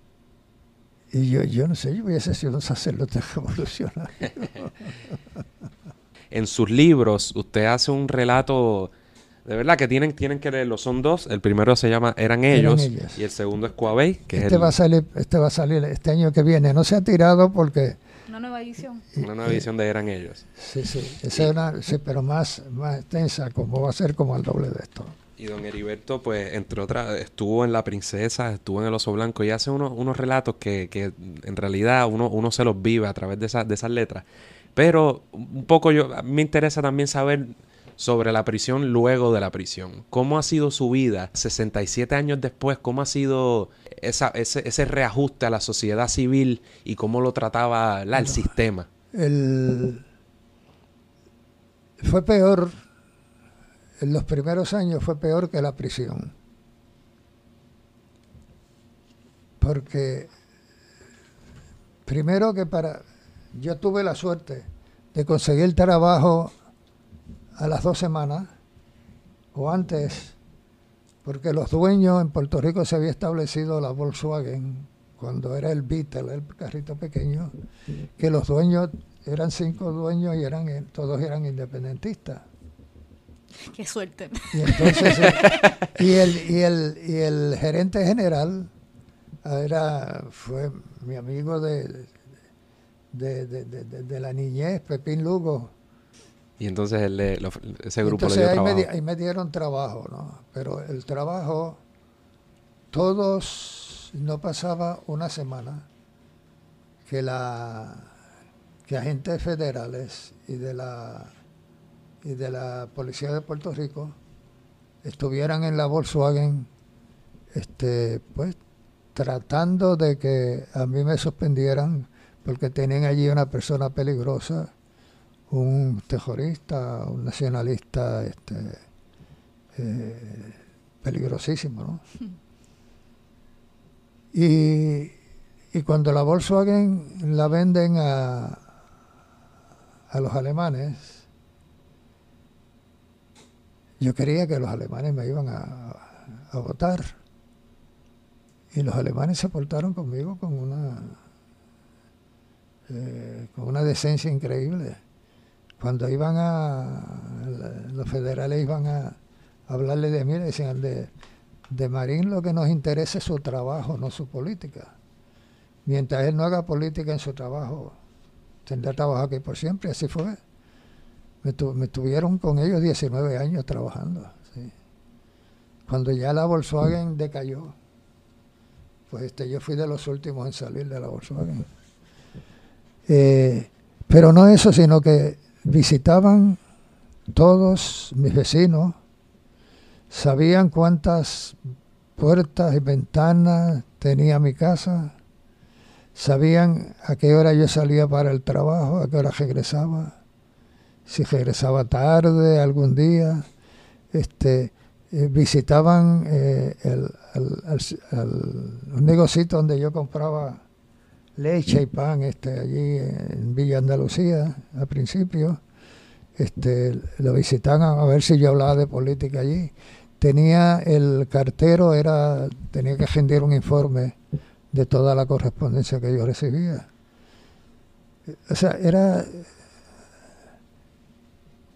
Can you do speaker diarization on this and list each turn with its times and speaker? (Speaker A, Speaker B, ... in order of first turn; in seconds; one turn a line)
Speaker A: 1.1-5.2
Speaker B: 6.3-8.9
Speaker B: 9.4-14.7
Speaker A: 12.5-13.2
Speaker A: 14.3-18.0
Speaker C: 18.3-19.1
Speaker A: 19.2-19.7
Speaker B: 19.2-20.5
Speaker A: 20.6-25.2
Speaker B: 25.4-34.2
Speaker B: 34.8-48.9
Speaker A: 48.1-48.5
Speaker A: 49.1-50.0
Speaker A: 52.0-52.8
Speaker A: 54.0-56.3
Speaker A: 59.6-60.3
Speaker A: 62.0-66.5
Speaker A: 67.5-68.5
Speaker A: 69.5-70.4
Speaker A: 71.2-77.5
Speaker A: 78.2-82.5
Speaker C: 83.6-85.7
Speaker A: 84.5-88.7
Speaker A: 89.4-92.1
Speaker A: 93.1-95.7
Speaker B: 96.6-98.9
Speaker A: 98.0-101.8
Speaker A: 102.9-105.9
Speaker A: 107.0-108.1
Speaker A: 108.9-111.3
Speaker A: 112.2-114.2
Speaker A: 115.0-116.7
Speaker A: 117.5-118.6
Speaker A: 119.1-124.7
Speaker A: 125.5-128.8
Speaker A: 129.7-132.0
Speaker A: 134.3-135.2
Speaker A: 135.7-138.7
Speaker A: 140.1-141.2
Speaker A: 144.0-147.2
Speaker A: 148.7-151.2
Speaker A: 152.9-155.0
Speaker A: 155.8-161.1
Speaker A: 161.7-164.9
Speaker A: 165.8-168.0
Speaker A: 168.6-170.4
Speaker A: 171.4-174.7
Speaker A: 175.9-177.8
Speaker A: 179.1-181.7
Speaker A: 183.1-186.6
Speaker A: 187.3-189.0
Speaker A: 190.1-191.6
Speaker A: 192.2-195.1
Speaker A: 196.1-200.2
Speaker A: 201.1-203.5
Speaker A: 204.1-210.6
Speaker A: 211.4-215.6
Speaker A: 216.4-224.2
Speaker A: 224.7-226.9
Speaker A: 228.3-229.5